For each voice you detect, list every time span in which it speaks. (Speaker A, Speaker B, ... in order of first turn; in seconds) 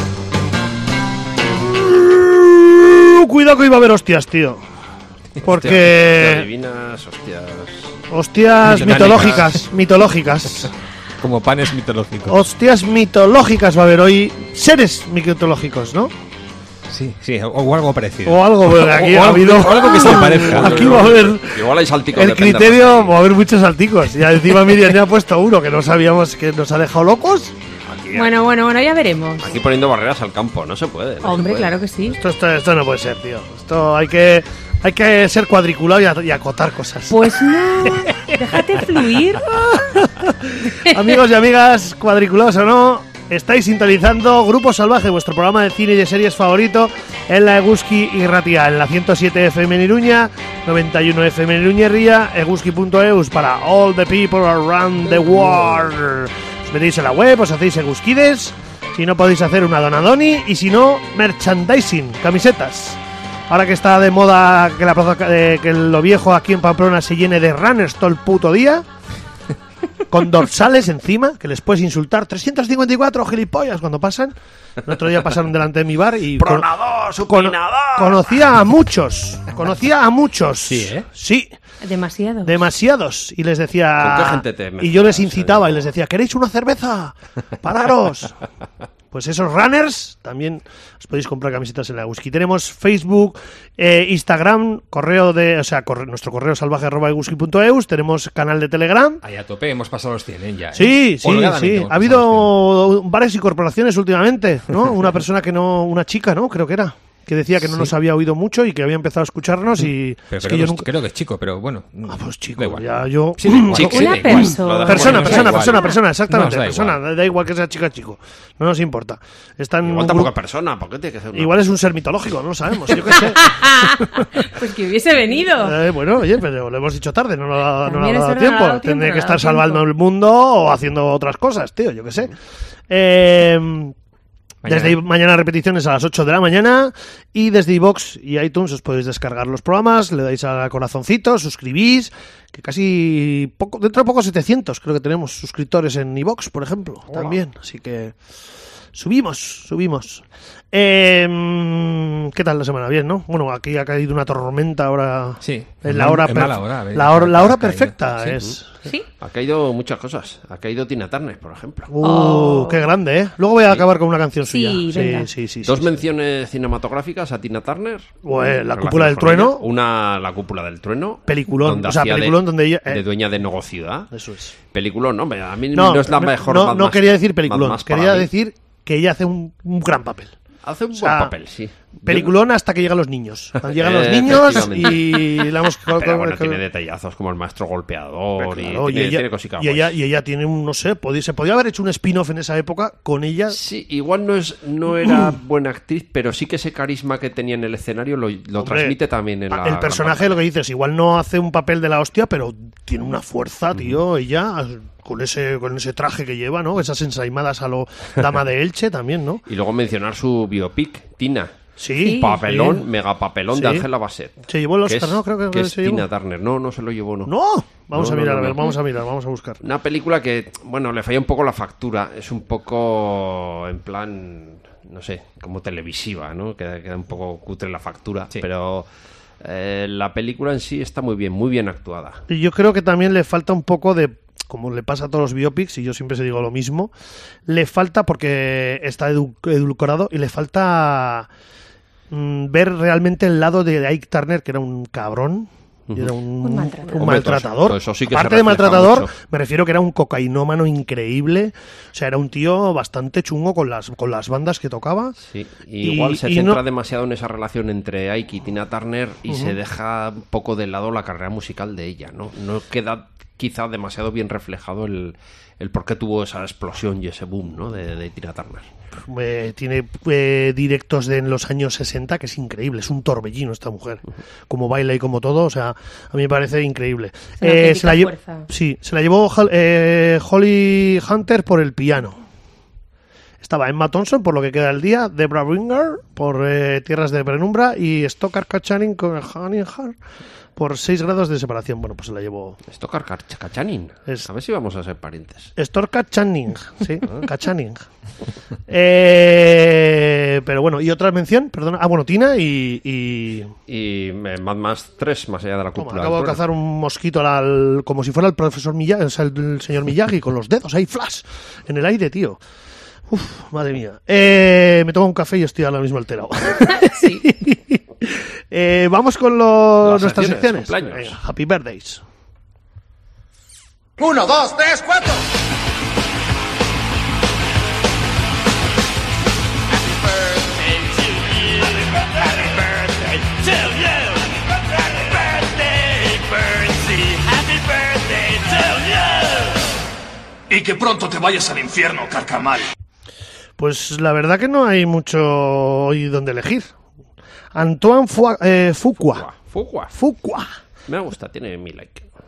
Speaker A: 1.8-4.7, 5.4-6.5, 8.1-10.7, 12.3-16.1, 18.2-27.6, 32.1-38.3, 39.3-68.8, 70.1-76.7, 77.3-81.5, 82.4-88.4, 89.1-99.2, 100.8-110.9, 112.1-120.3, 121.3-124.3, 125.4-132.3, 132.9-133.9, 134.7-148.2, 148.9-158.8, 161.9-166.0, 168.2-169.7, 171.3-173.0, 174.1-174.5, 175.7-180.3, 181.0-181.3, 182.0-186.6, 188.4-193.6, 198.6-199.0, 199.5-209.4, 211.8-212.8, 213.5-213.8, 214.5-216.1, 217.3-219.6, 232.3-236.9, 237.5-241.3, 242.1-255.2, 255.8-256.6, 259.3-259.6, 269.1-282.2, 283.4-290.0, 290.6-292.6, 295.6-297.9, 298.7-303.6, 305.8-312.4, 313.1-322.0, 343.6-346.7, 347.5-349.3, 349.9-350.6
Speaker B: 5.4-8.0, 8.7-9.6, 19.4-23.2, 27.9-28.4, 29.4-31.8, 76.4-78.5, 80.7-81.0, 84.0-85.9, 113.7-115.8, 119.8-121.6, 159.2-161.9, 165.6-174.1, 174.7-178.3, 180.6-182.3, 183.6-189.9, 193.5-200.4, 209.5-211.5, 212.1-217.3, 217.9-218.8, 219.6-228.9, 229.4-232.2, 245.9-246.1, 247.0-249.1, 255.2-268.7, 292.7-295.5, 303.7-306.4, 319.8-321.2, 349.0-349.9, 350.9-352.1
Speaker C: 8.7-9.6, 11.2-12.5, 16.9-21.1, 99.2-102.5, 107.6-107.9, 110.3-117.0, 134.6-135.0, 155.4-158.4
Speaker D: 28.1-29.6, 31.2-32.2, 37.1-39.7, 81.8-82.6, 113.8-116.0, 123.2-125.8, 127.8-129.8, 162.0-162.9, 164.5-165.3, 212.0-212.4, 246.4-247.3, 277.4-278.5, 316.7-317.2
Speaker E: 324.0-325.2, 329.9-334.2, 334.8-339.5
Speaker F: 340.5-342.6